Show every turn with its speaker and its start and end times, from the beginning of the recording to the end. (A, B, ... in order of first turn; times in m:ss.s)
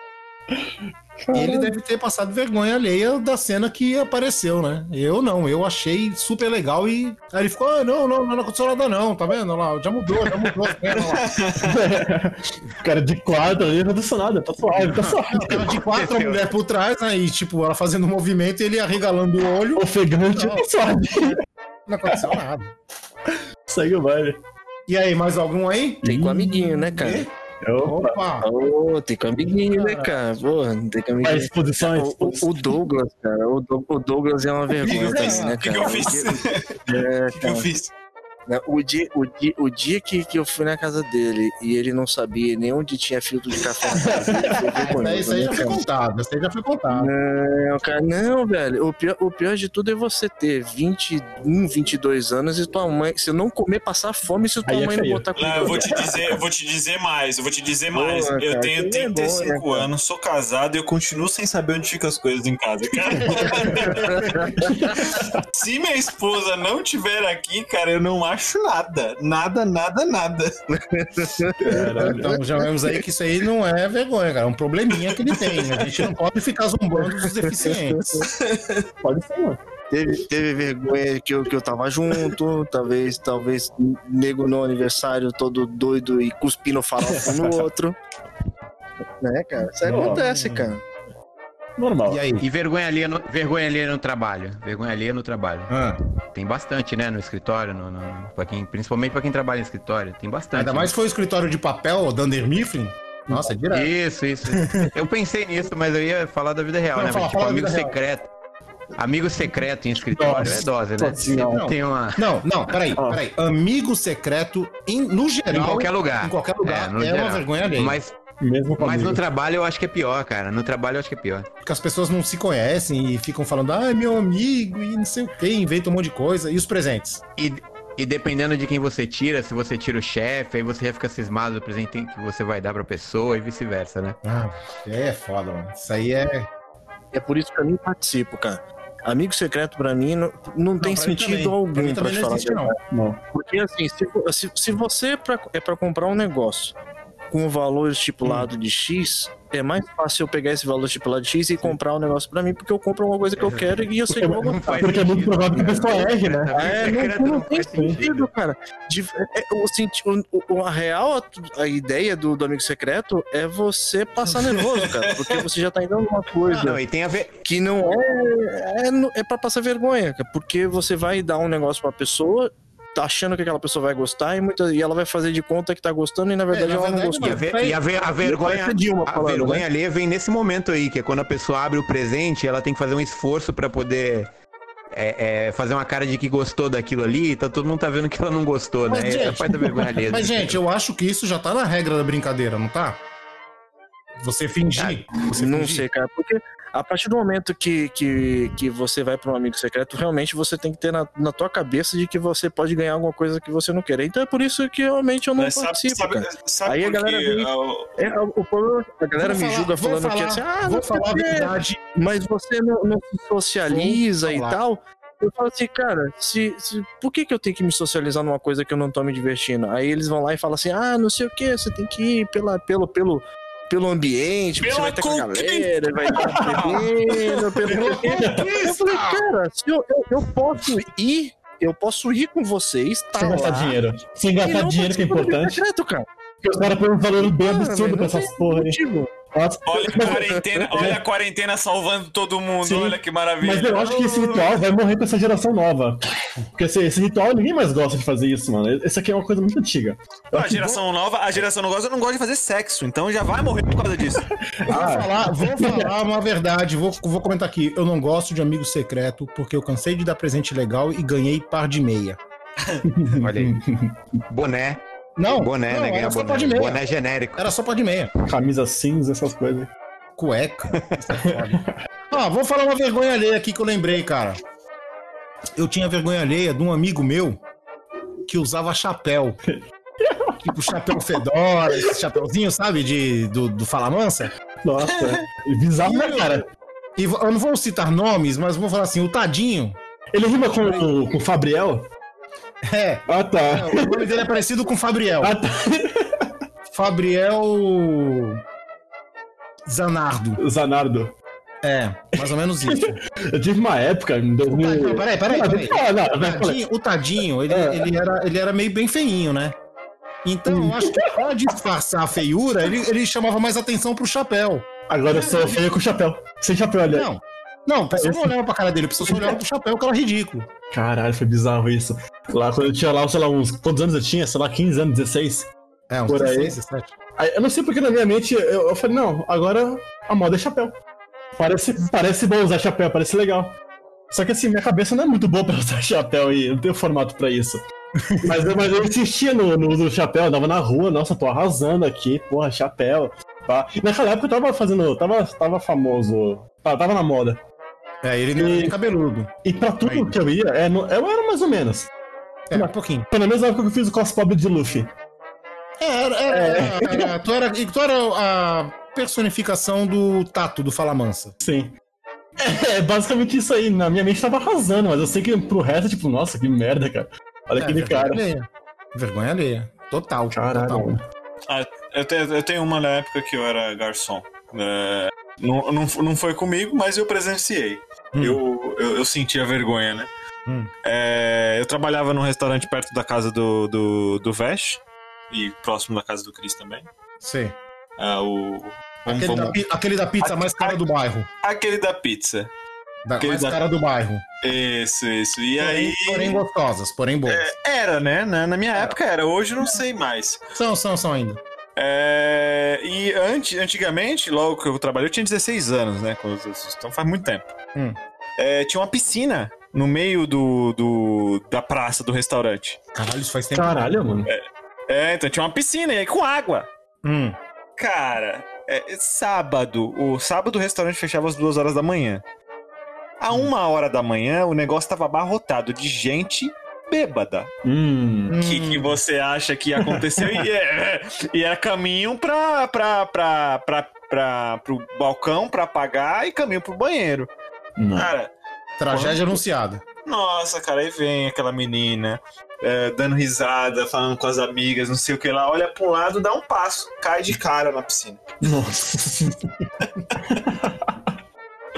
0:00.5-0:01.7 A
0:01.3-0:11.3 B
0:10.9-0:11.6 C
0:11.6-0:15.8 A
0:14.7-0:22.8 B
0:15.9-0:16.5 D
0:19.7-0:21.4 A
0:23.7-0:24.4 A
0:24.9-0:26.0 B
0:26.0-0:27.0 A
0:26.0-0:27.3 E
0:27.0-0:27.3 B
0:27.6-0:28.2 A
0:27.8-0:28.5 B
0:28.4-0:37.7 E
0:29.7-0:30.2 B
0:31.2-0:32.6 A
0:34.8-0:35.7 B
0:34.9-0:36.8 C
0:37.3-0:37.9 C
0:38.5-0:45.8 E
0:44.0-0:44.6 A
0:44.0-0:47.1 B
0:46.9-0:56.0 E
0:54.6-0:56.0 A
0:55.4-1:04.4 C
0:57.9-0:59.9 E
1:03.2-1:04.4 B
1:03.8-1:04.7 E
1:04.7-1:05.4 A
1:05.5-1:10.5 C
1:10.7-1:12.4 E
1:11.6-1:12.3 A
1:11.7-1:18.3 B
1:17.5-1:18.3 E
1:18.5-1:18.8 C
1:19.0-1:19.6 A
1:19.9-1:28.0 E
1:27.1-1:27.6 A
1:29.2-1:30.8 E
1:29.8-1:30.2 A
1:30.0-1:30.7 B
1:31.8-1:32.2 A
1:32.1-1:32.4 B
1:32.4-1:35.8 D
1:35.7-1:36.0 B
1:36.3-1:40.9 D
1:40.5-1:43.9 B
1:43.7-1:48.3 D
1:44.6-1:44.9 B
1:46.9-1:48.0 B
1:49.0-1:52.2 D
1:50.2-1:50.6 B
1:50.2-1:51.6 A
1:51.2-1:58.0 B
1:53.0-1:53.2 A
1:55.5-1:58.1 D
1:58.4-1:59.2 A
1:58.8-2:01.5 D
2:01.6-2:07.2 B
2:07.4-2:14.2 D
2:14.2-2:16.5 B
2:17.1-2:22.8 E
2:20.8-2:22.7 B
2:22.9-2:23.2 A
2:23.3-2:26.7 E
2:27.3-2:34.7 E
2:34.1-2:37.0 A
2:34.2-2:38.3 D
2:36.5-2:46.8 E
2:37.7-2:38.0 A
2:44.4-2:45.4 C
2:46.5-2:47.4 D
2:47.4-2:57.4 E
2:56.5-2:57.8 B
2:57.2-3:04.3 D
2:58.2-2:59.6 E
3:04.9-3:10.6 D
3:08.8-3:13.0 B
3:14.2-3:15.8 B
3:14.8-3:15.0 D
3:15.2-3:53.8 E
3:25.4-3:28.0 C
3:29.2-3:31.8 B
3:33.7-3:34.6 B
3:44.6-3:45.7 C
3:46.2-3:46.6 A
3:46.5-3:47.4 C
3:47.7-3:49.2 B
3:48.1-3:48.5 A
3:53.2-3:55.6 A
3:54.4-3:56.1 E
3:56.4-3:58.8 A
3:57.2-3:59.1 E
3:59.3-4:01.0 A
3:59.7-4:04.6 C
3:59.9-4:01.0 E
4:02.6-4:10.6 A
4:10.3-4:14.3 C
4:14.5-4:15.9 A
4:14.7-4:22.2 B
4:22.8-4:23.9 A
4:23.2-4:23.6 D
4:24.3-4:27.5 D
4:25.2-4:26.8 B
4:27.4-4:28.1 B
4:28.3-4:29.7 A
4:30.2-4:34.4 B
4:31.2-4:31.7 A
4:35.6-4:37.4 B
4:38.2-4:39.4 B
4:39.4-4:40.4 A
4:40.4-4:44.3 B
4:44.6-4:46.5 A
4:45.8-4:46.4 B
4:47.0-4:49.8 B
4:50.1-4:51.9 A
4:50.6-4:51.2 B
4:52.6-4:55.4 B
4:53.1-4:54.2 A
4:55.2-4:56.3 A
4:56.7-4:58.4 B
4:59.6-5:00.4 B
5:00.4-5:01.1 A
5:01.6-5:03.0 B
5:02.2-5:06.6 A
5:04.5-5:09.6 B
5:07.5-5:07.9 A
5:10.2-5:15.6 B
5:10.5-5:11.1 A
5:14.9-5:17.1 A
5:16.9-5:20.5 B
5:18.0-5:18.3 A
5:19.1-5:19.4 A
5:20.7-5:25.5 A
5:25.9-5:26.9 B
5:26.1-5:26.6 A
5:27.2-5:30.7 A
5:31.4-5:33.5 A
5:34.1-5:37.6 A
5:38.2-5:47.4 A
5:48.0-5:50.1 B
5:48.4-5:48.8 A
5:49.4-5:51.9 A
5:52.5-5:53.1 B
5:52.5-5:54.9 A
5:55.8-6:01.3 B
5:56.3-5:57.1 A
6:01.4-6:01.7 A
6:02.4-6:08.2 A
6:07.6-6:10.9 B
6:10.3-6:11.0 A
6:11.5-6:20.1 C
6:18.1-6:18.4 B
6:20.8-6:26.9 C
6:27.2-6:27.6 B
6:28.0-6:29.6 C
6:29.1-6:31.3 B
6:30.2-6:30.8 C
6:31.4-6:32.5 C
6:33.0-6:34.2 B
6:33.2-6:33.6 C
6:34.4-6:36.4 C
6:35.6-6:37.5 B
6:37.3-6:40.4 C
6:40.5-6:41.4 B
6:41.8-6:47.5 C
6:48.4-6:52.8 C
6:52.9-6:53.9 B
6:53.5-6:54.3 A
6:54.3-6:56.7 C
6:57.0-6:57.4 B
6:57.8-7:02.2 C
7:03.2-7:07.5 C
7:07.6-7:08.4 A
7:08.3-7:09.0 B
7:08.4-7:17.3 C
7:09.8-7:10.4 A
7:17.8-7:18.1 A
7:17.9-7:18.3 C
7:18.8-7:19.8 B
7:18.9-7:19.2 A
7:20.0-7:28.4 C
7:28.4-7:29.5 A
7:30.2-7:31.1 A